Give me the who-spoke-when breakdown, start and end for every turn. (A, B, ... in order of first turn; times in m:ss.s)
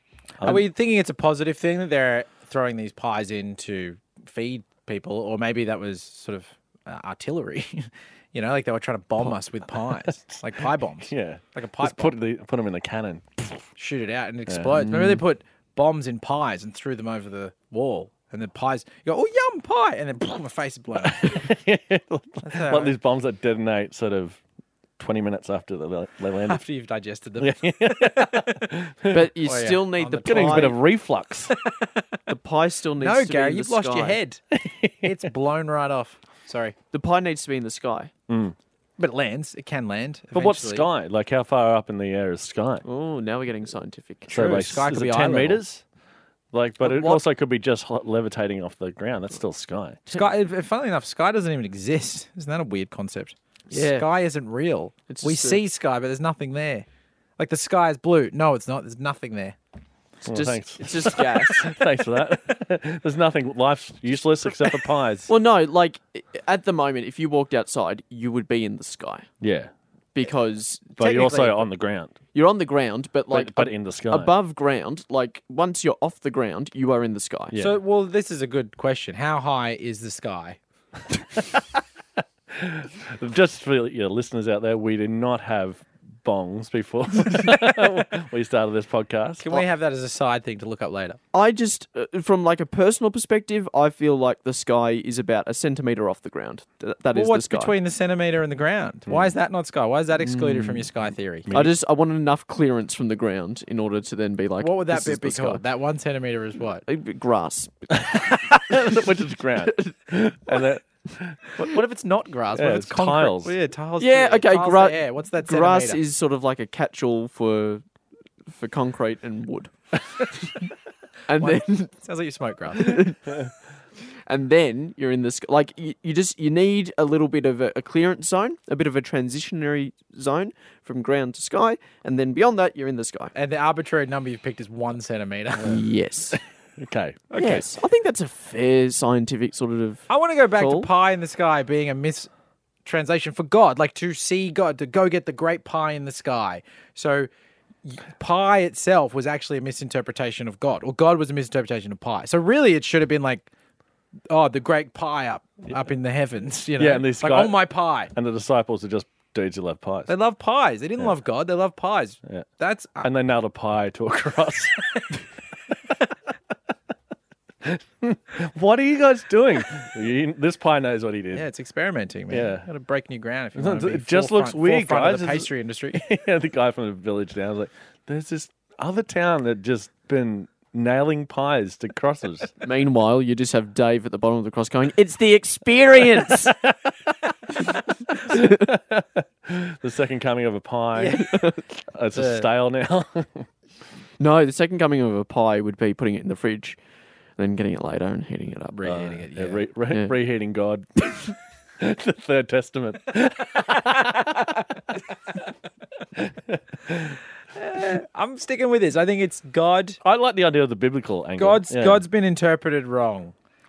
0:00.4-0:00.6 A
0:00.4-0:12.2 B
0:11.1-0:13.7 A
0:13.8-0:21.4 B
0:14.5-0:15.2 A
0:21.0-0:24.4 A
0:22.4-0:23.0 B
0:25.0-0:26.6 A
0:26.4-0:28.7 B
0:27.4-0:29.3 A
0:29.1-0:30.8 C
0:29.4-0:30.7 B
0:30.2-0:31.5 A
0:31.5-0:32.0 B
0:32.3-0:34.2 C
0:33.0-0:34.4 B
0:34.5-0:35.2 A
0:35.0-0:36.8 B
0:36.9-0:38.1 C
0:38.3-0:38.6 A
0:39.0-0:40.9 B
0:40.3-0:42.8 A
0:42.8-0:44.6 C
0:44.3-0:45.6 B
0:44.3-0:45.8 A
0:46.5-0:50.0 A
0:46.8-0:47.2 C
0:50.1-0:56.9 B
0:53.7-0:54.1 C
0:55.1-0:55.6 C
0:57.4-0:59.6 B
1:00.2-1:01.8 C
1:00.3-1:05.3 A
1:05.3-1:09.3 C
1:09.4-1:09.7 A
1:10.2-1:11.0 C
1:11.0-1:12.2 A
1:11.0-1:11.7 B
1:12.3-1:17.6 C
1:13.3-1:14.3 A
1:17.6-1:20.6 B
1:22.5-1:29.6 A
1:29.4-1:31.2 B
1:31.3-1:37.7 C
1:37.1-1:41.5 B
1:39.1-1:39.3 A
1:40.3-1:40.8 C
1:41.5-1:41.8 A
1:41.5-1:45.6 C
1:44.6-1:46.8 B
1:46.9-1:49.0 C
1:48.0-1:51.5 A
1:49.6-1:50.0 C
1:51.6-1:56.0 B
1:52.5-1:53.5 A
1:54.0-1:57.8 C
1:58.5-2:00.5 C
2:01.3-2:01.9 C
2:01.4-2:03.1 B
2:02.8-2:03.4 C
2:04.3-2:13.3 C
2:13.4-2:15.8 B
2:15.6-2:16.4 C
2:16.3-2:17.2 A
2:17.3-2:17.7 B
2:17.4-2:20.9 C
2:20.1-2:22.3 B
2:22.8-2:27.3 B
2:27.8-2:33.5 B
2:34.3-2:38.1 B
2:36.8-2:40.1 A
2:40.1-2:43.1 B
2:43.0-2:45.2 A
2:47.6-2:51.4 A
2:51.3-2:56.0 B
2:52.3-2:52.7 A
2:53.6-3:02.5 A
3:02.6-3:06.6 C
3:06.5-3:07.1 A
3:08.2-3:11.3 A
3:11.0-3:11.3 B
3:11.1-3:11.6 C
3:11.9-3:13.5 A
3:12.2-3:12.5 B
3:14.2-3:16.8 C
3:17.4-3:18.9 C
3:18.7-3:19.6 B
3:18.8-3:24.7 A
3:23.9-3:24.4 B
3:26.2-3:27.2 A
3:27.6-3:30.0 B
3:30.0-3:32.0 A
3:31.4-3:33.3 B